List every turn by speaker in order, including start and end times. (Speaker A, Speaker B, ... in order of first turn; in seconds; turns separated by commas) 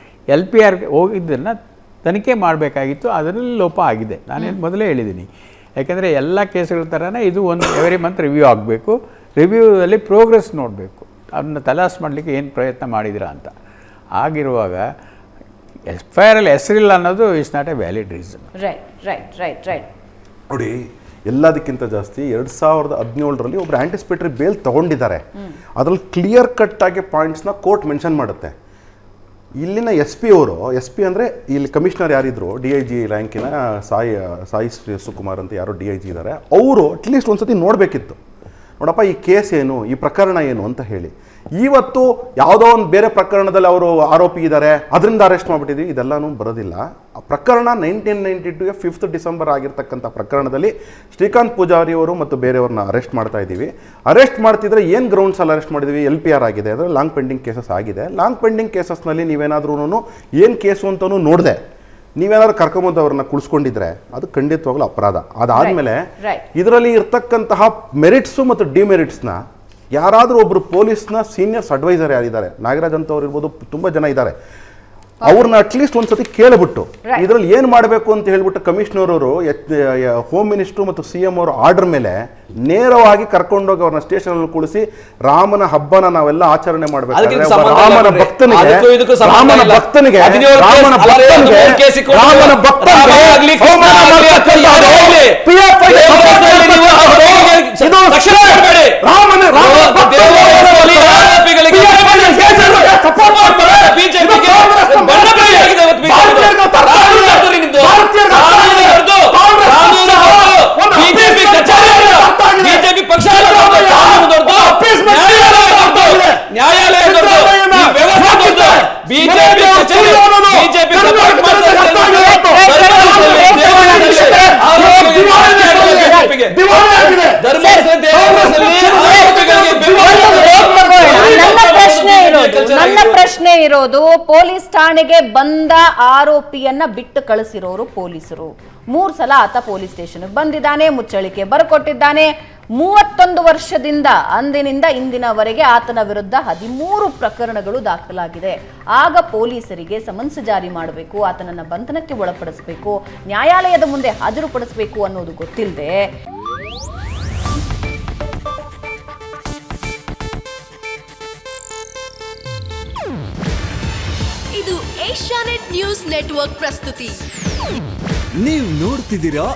Speaker A: 0.3-13.5, Speaker A: 14.2-14.8, Speaker A: 15.9-18.4, Speaker B: 18.6-19.9, Speaker C: 20.5-25.2, Speaker C: 25.8-28.5, Speaker C: 29.6-38.2, Speaker C: 38.8-61.6, Speaker C: 62.2-66.0, Speaker B: 65.5-66.5, Speaker C: 66.5-69.4, Speaker C: 70.0-74.3, Speaker B: 75.2-75.5, Speaker C: 75.2-116.5, Speaker D: 87.1-99.0, Speaker D: 99.5-133.3, Speaker C: 117.0-127.5, Speaker B: 122.1-126.4, Speaker B: 127.5-127.9, Speaker C: 128.1-131.6, Speaker B: 130.0-156.0, Speaker E: 164.5-167.2